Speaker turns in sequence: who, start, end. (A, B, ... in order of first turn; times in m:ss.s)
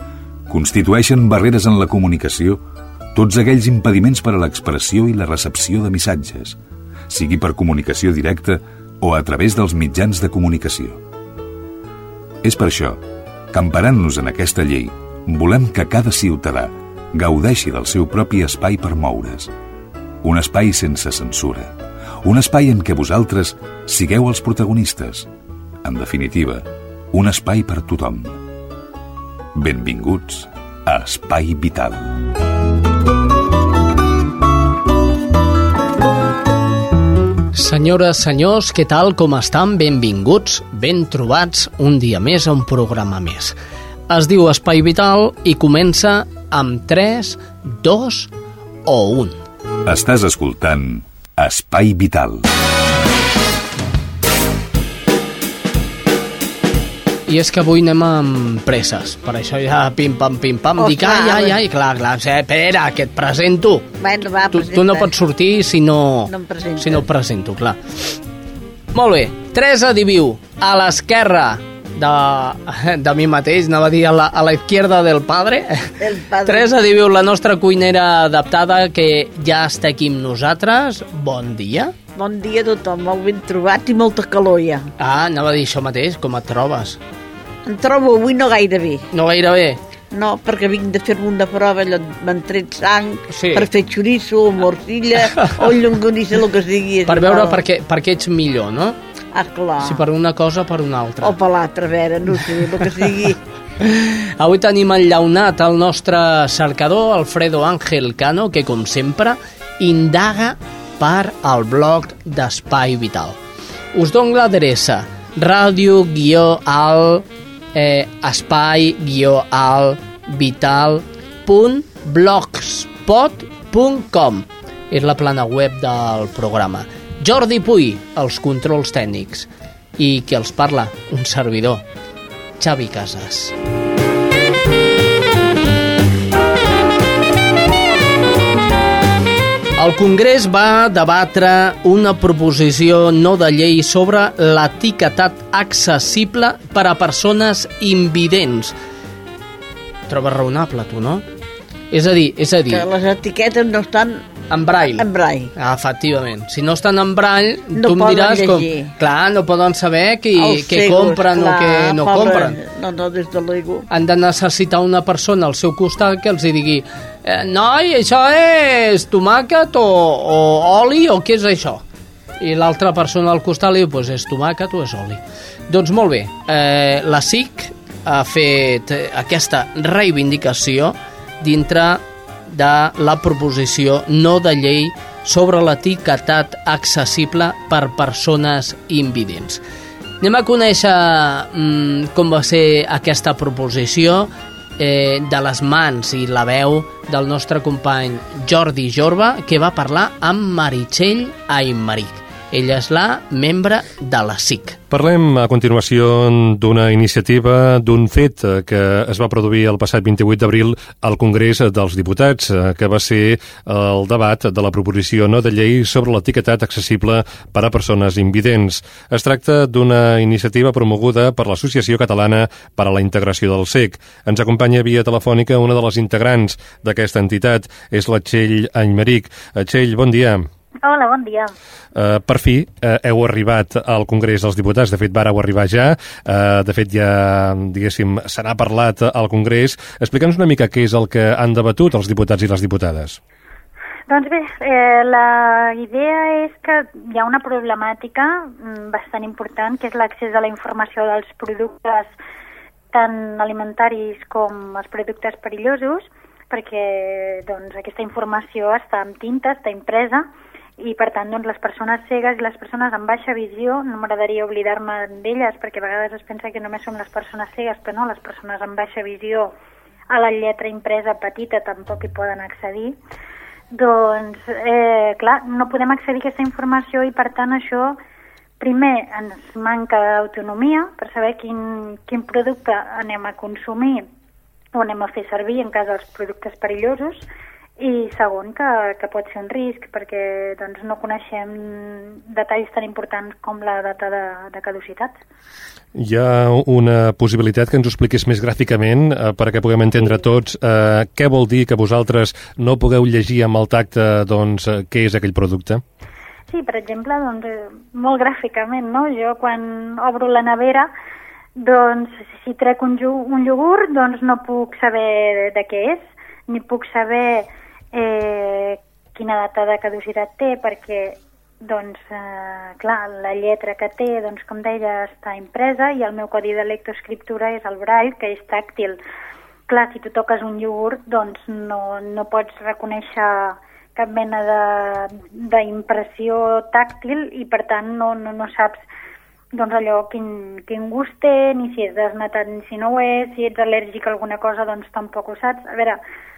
0:00.5-0:02.6 A
0:03.1-0:06.6 A
0:07.1-0:11.0 A
0:12.4-0:19.5 A
0:20.2-0:21.7 A
0:22.2-0:25.3 A
0:25.8-0:28.4 A
0:29.5-0:32.1 A
0:37.5-0:43.6 B
0:44.1-0:48.3 B
0:48.8-0:49.4 B
0:49.8-0:52.4 A
0:57.3-1:03.9 B
1:00.8-1:01.6 C
1:04.0-1:05.1 C
1:04.5-1:07.8 B
1:06.3-1:07.0 C
1:08.9-1:15.9 B
1:16.0-1:16.7 C
1:16.4-1:21.9 B
1:22.2-1:24.9 C
1:25.0-1:27.0 B
1:27.6-1:29.0 C
1:29.1-1:29.8 B
1:30.1-1:37.6 C
1:33.3-1:33.7 B
1:37.0-1:39.0 B
1:39.3-1:40.0 C
1:39.8-1:41.4 B
1:41.2-1:43.4 C
1:43.8-1:53.4 B
1:53.9-2:11.8 B
2:12.6-2:13.5 B
2:19.8-2:28.7 B
2:30.1-2:31.2 B
2:31.9-2:32.9 B
2:32.7-2:34.3 C
2:34.5-2:35.0 B
2:35.0-2:35.5 C
2:35.6-2:42.6 B
2:37.8-2:38.9 C
2:40.3-2:43.8 C
2:43.9-2:51.8 B
2:52.4-3:09.6 B
3:10.2-3:24.8 B
3:24.9-3:50.5 D
3:50.8-3:51.5 E
3:51.9-4:03.2 D
4:04.1-4:12.1 E
4:12.9-4:20.2 E
4:20.8-4:29.5 E
4:30.1-4:33.0 E
4:33.7-4:38.0 E
4:38.6-4:44.1 E
4:44.7-4:47.3 E
4:47.8-4:55.2 E
4:55.9-5:05.8 D
5:06.5-5:10.9 E
5:11.6-5:29.0 E
5:29.7-5:38.8 E
5:39.5-5:46.0 E